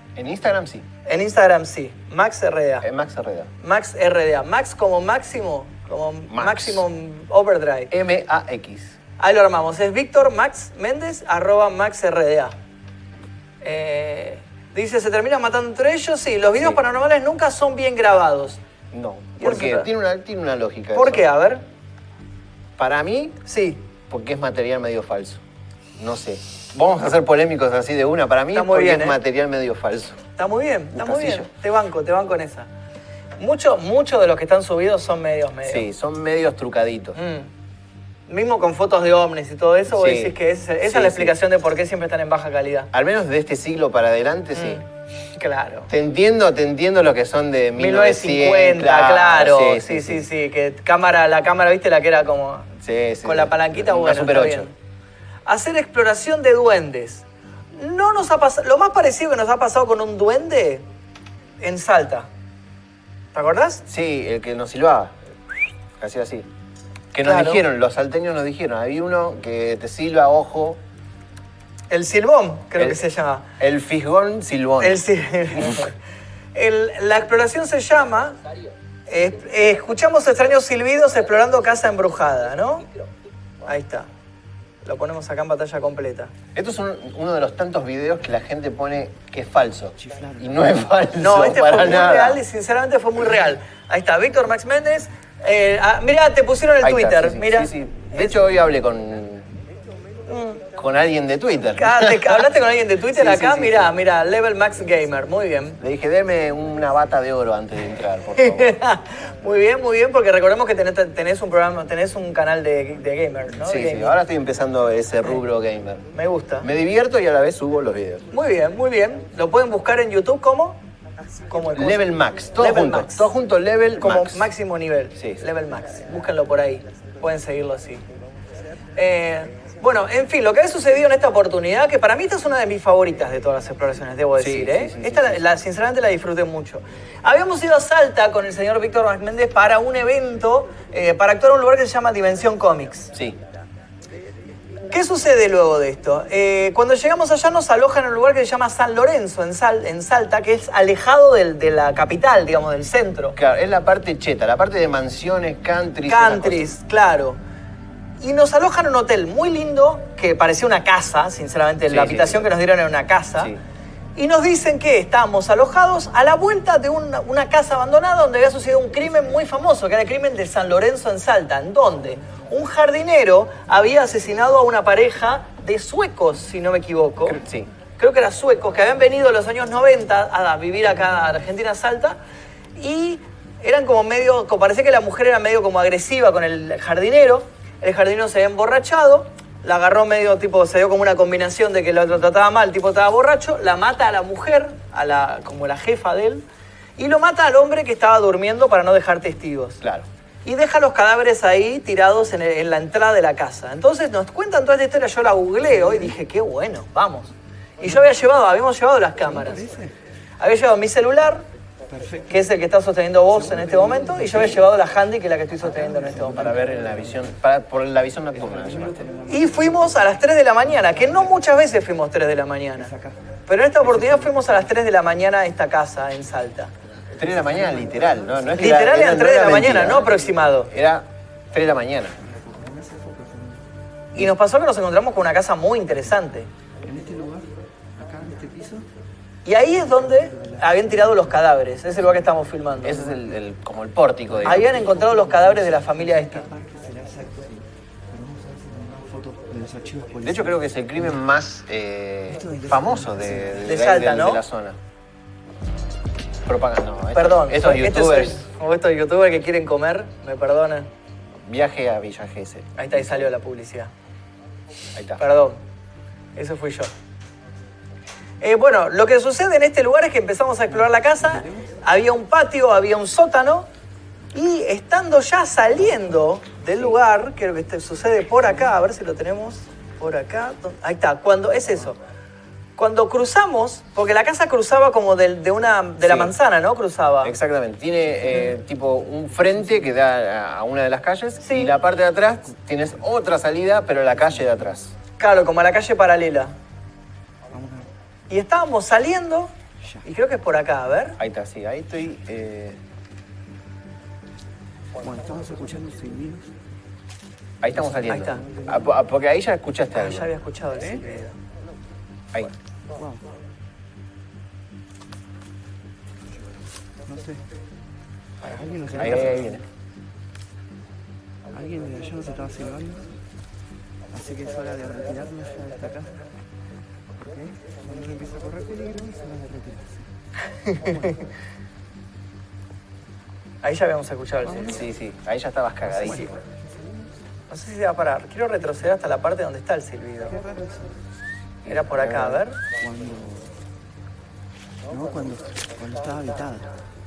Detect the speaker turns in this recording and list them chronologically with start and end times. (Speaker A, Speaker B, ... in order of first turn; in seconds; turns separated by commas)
Speaker A: 0.1-0.9, Speaker B: 1.1-2.9, Speaker A: 2.8-3.5, Speaker B: 3.6-7.9, Speaker A: 6.3-6.8, Speaker A: 7.9-8.9, Speaker B: 9.2-12.5, Speaker B: 13.6-18.6, Speaker A: 18.9-21.2, Speaker B: 19.4-19.9, Speaker B: 20.9-21.6, Speaker A: 22.8-23.4, Speaker B: 23.4-23.8, Speaker A: 24.1-25.4, Speaker A: 26.0-30.2, Speaker B: 28.5-29.2, Speaker B: 30.4-32.7, Speaker A: 30.9-31.5, Speaker B: 33.4-35.9, Speaker A: 35.6-37.2, Speaker B: 37.1-37.5, Speaker B: 38.3-42.9, Speaker A: 39.9-41.3, Speaker A: 42.9-44.8, Speaker B: 44.5-45.9, Speaker A: 45.9-50.2, Speaker B: 47.8-54.7, Speaker A: 52.8-54.7, Speaker B: 55.5-60.8, Speaker B: 61.6-62.3, Speaker B: 63.3-63.8, Speaker A: 63.9-65.2, Speaker A: 66.0-66.5, Speaker A: 67.1-70.8, Speaker B: 67.2-67.6, Speaker B: 71.9-73.5, Speaker A: 72.8-73.0, Speaker A: 73.6-75.0, Speaker B: 74.8-75.9, Speaker A: 75.6-75.8, Speaker B: 76.5-78.4, Speaker B: 79.1-82.9, Speaker B: 83.6-84.1, Speaker B: 84.8-86.3, Speaker A: 86.5-92.4, Speaker C: 90.0-90.5, Speaker B: 91.2-98.2, Speaker A: 96.8-99.5, Speaker B: 100.3-100.7, Speaker A: 100.8-102.4, Speaker B: 101.8-105.8, Speaker A: 103.1-104.0, Speaker A: 105.8-108.8, Speaker B: 108.4-114.2, Speaker A: 113.6-116.1, Speaker B: 116.1-116.7, Speaker A: 116.6-118.3, Speaker B: 118.3-120.8, Speaker B: 121.5-122.0, Speaker A: 121.7-124.5, Speaker B: 122.6-123.3, Speaker B: 124.0-128.0, Speaker A: 125.2-125.4, Speaker B: 128.9-143.1, Speaker A: 134.4-135.4, Speaker A: 143.1-143.4, Speaker B: 144.9-153.4, Speaker A: 153.3-156.7, Speaker B: 156.1-157.4, Speaker B: 158.2-163.5, Speaker A: 161.9-162.4, Speaker B: 164.2-177.4, Speaker A: 177.2-177.7, Speaker B: 178.0-182.2, Speaker B: 182.8-196.4, Speaker B: 197.0-199.8, Speaker A: 199.8-200.1, Speaker B: 200.4-209.6, Speaker C: 205.8-206.1, Speaker C: 209.2-209.9, Speaker B: 210.4-211.4, Speaker C: 211.9-212.5, Speaker B: 212.3-216.6, Speaker C: 213.3-214.6, Speaker C: 215.6-217.3, Speaker A: 216.3-219.1, Speaker C: 218.3-220.1, Speaker B: 219.3-222.9, Speaker C: 220.7-221.3, Speaker C: 222.8-223.2, Speaker B: 223.5-226.7, Speaker C: 223.8-224.7, Speaker C: 227.2-228.6, Speaker A: 227.2-232.2, Speaker B: 228.6-230.7, Speaker C: 232.2-233.7, Speaker B: 234.1-236.5, Speaker C: 236.8-238.9, Speaker B: 239.4-243.1, Speaker C: 239.7-241.4, Speaker A: 242.8-244.7, Speaker C: 244.3-251.2, Speaker B: 244.4-246.5, Speaker A: 250.2-254.8, Speaker C: 252.3-253.8, Speaker B: 253.6-254.4, Speaker A: 256.4-258.4, Speaker B: 257.1-260.9, Speaker A: 261.4-263.0, Speaker B: 262.8-263.9, Speaker A: 264.9-265.2, Speaker B: 265.2-265.6, Speaker B: 266.4-266.9, Speaker B: 268.4-273.7, Speaker C: 270.7-271.8, Speaker B: 274.3-282.0, Speaker B: 282.8-287.3, Speaker A: 286.0-286.3, Speaker A: 287.2-294.9, Speaker C: 289.5-289.9, Speaker B: 291.4-291.7, Speaker C: 294.3-294.6, Speaker B: 295.2-296.5, Speaker C: 297.5-297.9, Speaker B: 298.3-299.5, Speaker B: 300.0-301.2, Speaker A: 301.2-302.8, Speaker C: 305.0-306.6, Speaker A: 307.6-310.3, Speaker C: 307.7-308.9, Speaker B: 308.1-308.4, Speaker B: 309.9-311.4, Speaker C: 312.9-313.3, Speaker C: 317.0-317.4, Speaker B: 318.4-319.3, Speaker C: 318.5-319.6, Speaker A: 319.0-319.6, Speaker C: 321.5-323.1, Speaker C: 324.1-326.2, Speaker C: 327.2-330.1, Speaker B: 330.7-330.9, Speaker C: 330.7-331.3, Speaker B: 333.6-334.8, Speaker C: 334.4-334.8, Speaker A: 334.7-336.4, Speaker C: 335.9-337.2, Speaker B: 336.0-336.3, Speaker B: 337.5-340.4, Speaker C: 340.3-341.0, Speaker A: 341.6-342.4, Speaker B: 341.6-342.6, Speaker C: 342.8-343.5, Speaker C: 344.9-346.7